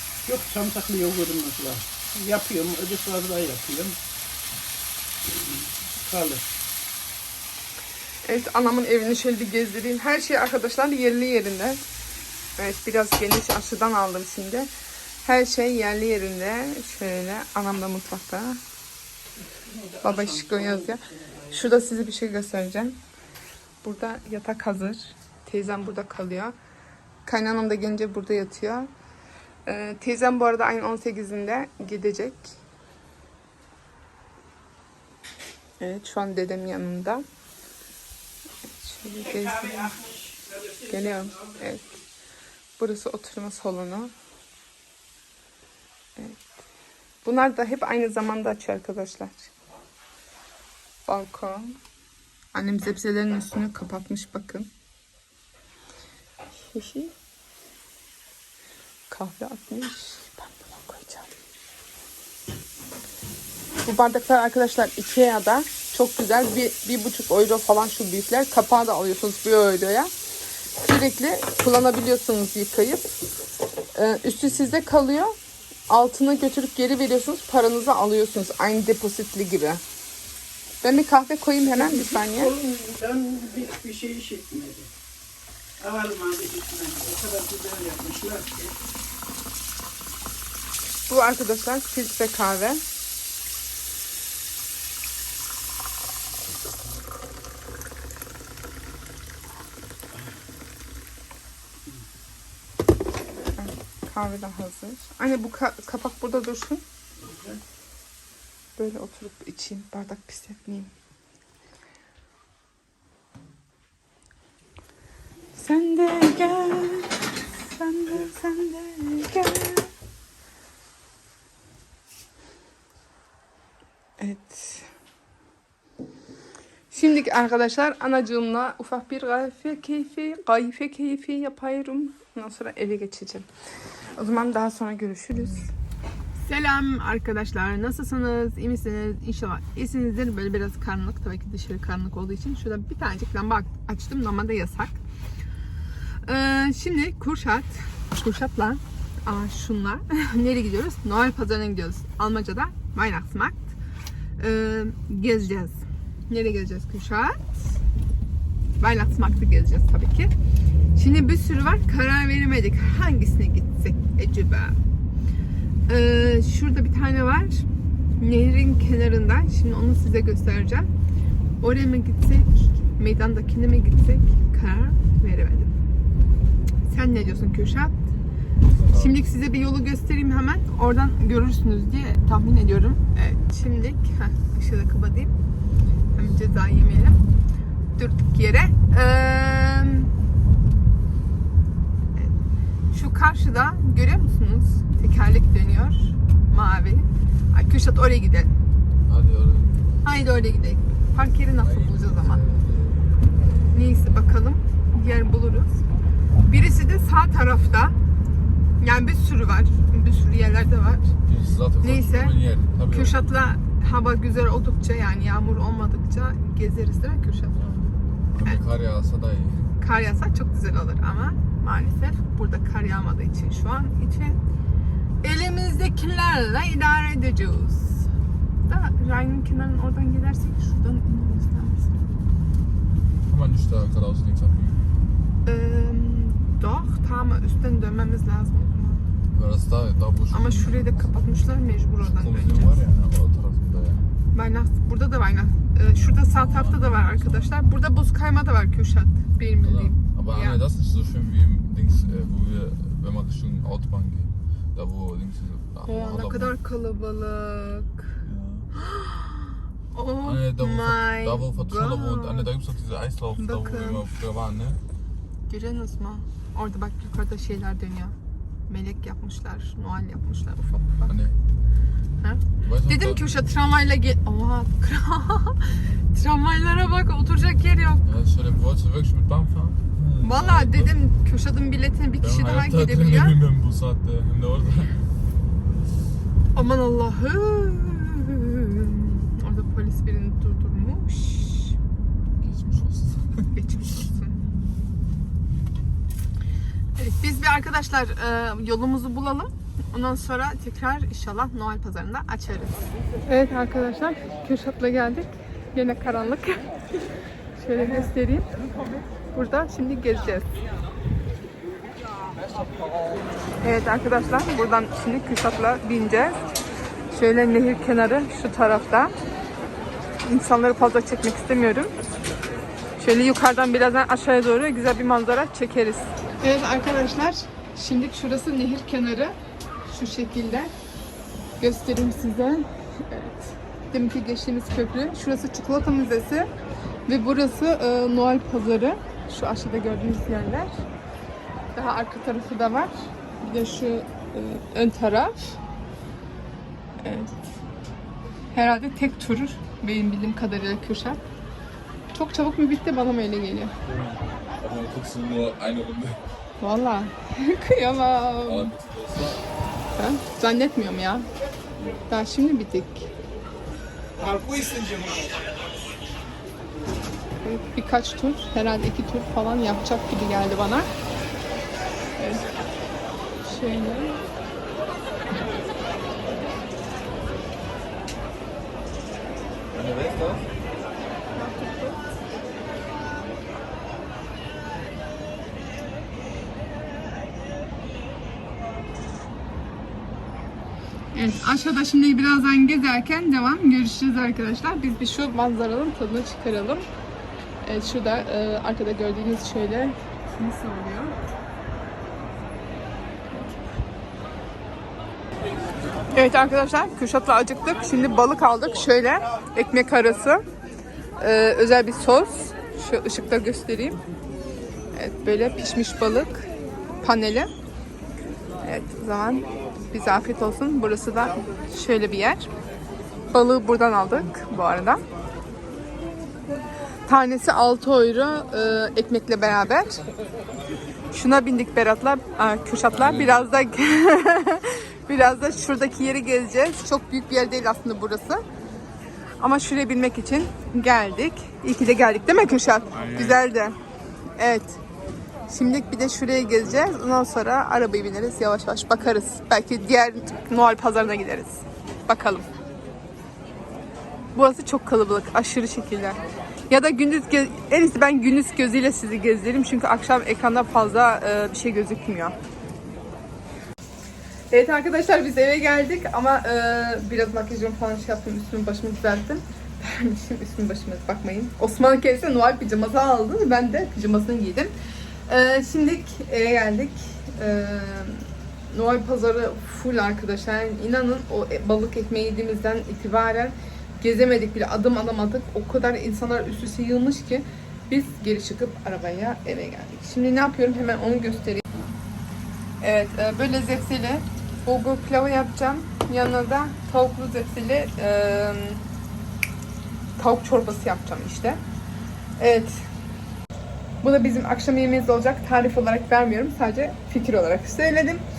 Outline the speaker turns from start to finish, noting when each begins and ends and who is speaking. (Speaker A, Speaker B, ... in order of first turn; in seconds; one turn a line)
Speaker A: 0.2-4.0
Speaker A: 5.3-6.5
Speaker B: 8.2-11.8
Speaker B: 12.6-14.7
Speaker B: 15.2-18.6
Speaker A: 19.5-21.7
Speaker B: 20.0-23.0
Speaker B: 23.8-26.5
Speaker B: 27.2-28.9
Speaker B: 29.7-32.5
Speaker B: 35.8-37.2
Speaker B: 38.8-40.0
Speaker A: 39.1-41.9
Speaker B: 40.9-41.8
Speaker B: 42.8-44.1
Speaker B: 46.2-46.5
Speaker B: 47.2-49.5
Speaker B: 51.1-51.8
Speaker B: 52.5-54.7
Speaker B: 56.7-57.1
Speaker B: 59.1-61.3
Speaker B: 63.9-70.1
Speaker B: 70.8-73.2
Speaker B: 74.0-75.3
Speaker B: 75.9-79.8
Speaker B: 80.8-82.5
Speaker A: 81.7-84.9
Speaker A: 85.8-88.8
Speaker B: 91.1-92.8
Speaker B: 103.6-106.8
Speaker A: 107.2-107.6
Speaker B: 108.8-110.9
Speaker B: 115.6-119.9
Speaker B: 124.2-124.9
Speaker B: 126.9-133.5
Speaker B: 134.2-135.7
Speaker B: 136.4-145.0
Speaker B: 146.2-153.8
Speaker B: 154.4-157.6
Speaker B: 158.8-160.3
Speaker B: 160.9-164.8
Speaker B: 165.9-167.7
Speaker B: 168.2-170.9
Speaker B: 171.6-175.7
Speaker B: 176.9-178.0
Speaker C: 178.6-179.3
Speaker B: 178.9-185.3
Speaker B: 186.2-187.2
Speaker B: 188.0-190.1
Speaker B: 192.9-198.5
Speaker C: 199.1-200.0
Speaker B: 200.0-202.4
Speaker C: 201.6-204.3
Speaker B: 203.7-205.8
Speaker B: 206.4-207.9
Speaker B: 208.8-211.1
Speaker C: 211.2-213.2
Speaker B: 211.8-212.4
Speaker B: 212.9-217.6
Speaker C: 217.6-219.7
Speaker B: 219.8-224.4
Speaker B: 225.2-228.1
Speaker B: 228.7-232.0
Speaker C: 233.3-234.8
Speaker B: 235.5-239.0
Speaker C: 239.3-241.1
Speaker B: 240.3-242.8
Speaker C: 242.0-244.0
Speaker B: 244.3-250.6
Speaker C: 245.9-247.5
Speaker C: 249.6-256.6
Speaker B: 255.9-258.1
Speaker C: 258.2-258.7
Speaker B: 258.7-262.5
Speaker C: 260.2-264.8
Speaker B: 263.4-264.1
Speaker B: 265.5-268.1
Speaker B: 268.7-271.1
Speaker C: 271.1-271.4
Speaker B: 272.2-278.1
Speaker C: 272.6-273.2
Speaker C: 278.1-280.9
Speaker B: 280.2-283.4
Speaker C: 282.2-284.9
Speaker B: 286.5-291.8
Speaker C: 292.4-293.5
Speaker B: 293.5-294.4
Speaker B: 297.0-306.7
Speaker B: 307.6-308.5
Speaker B: 309.3-310.6
Speaker B: 313.6-316.4
Speaker B: 317.1-319.1
Speaker B: 320.2-321.9
Speaker B: 323.0-329.4
Speaker B: 329.9-330.7
Speaker B: 331.6-336.5
Speaker B: 337.1-340.8
Speaker B: 341.8-345.6
Speaker B: 347.0-347.4
Speaker B: 348.5-351.2
Speaker B: 352.1-353.8
Speaker C: 353.9-356.2
Speaker B: 356.6-358.7
Speaker C: 358.5-359.4
Speaker B: 360.0-361.3
Speaker B: 362.1-363.1
Speaker C: 364.2-365.4
Speaker B: 367.4-370.9
Speaker B: 372.2-372.5
Speaker B: 373.4-374.2
Speaker C: 379.7-380.5
Speaker B: 381.3-382.1
Speaker B: 391.1-396.9
Speaker B: 397.6-401.2
Speaker B: 406.1-410.4
Speaker B: 411.2-414.0
Speaker B: 414.9-416.5
Speaker B: 417.0-417.5
Speaker B: 418.6-422.5
Speaker B: 423.3-425.0
Speaker B: 427.1-430.0
Speaker B: 431.1-438.4
Speaker C: 432.9-433.5
Speaker B: 439.4-443.8
Speaker C: 442.9-443.4
Speaker B: 444.4-444.8
Speaker B: 445.5-452.5
Speaker B: 454.4-462.4
Speaker B: 464.5-474.7
Speaker B: 475.3-491.6
Speaker B: 492.8-498.9
Speaker B: 500.2-501.6
Speaker B: 502.4-502.9
Speaker B: 504.0-508.2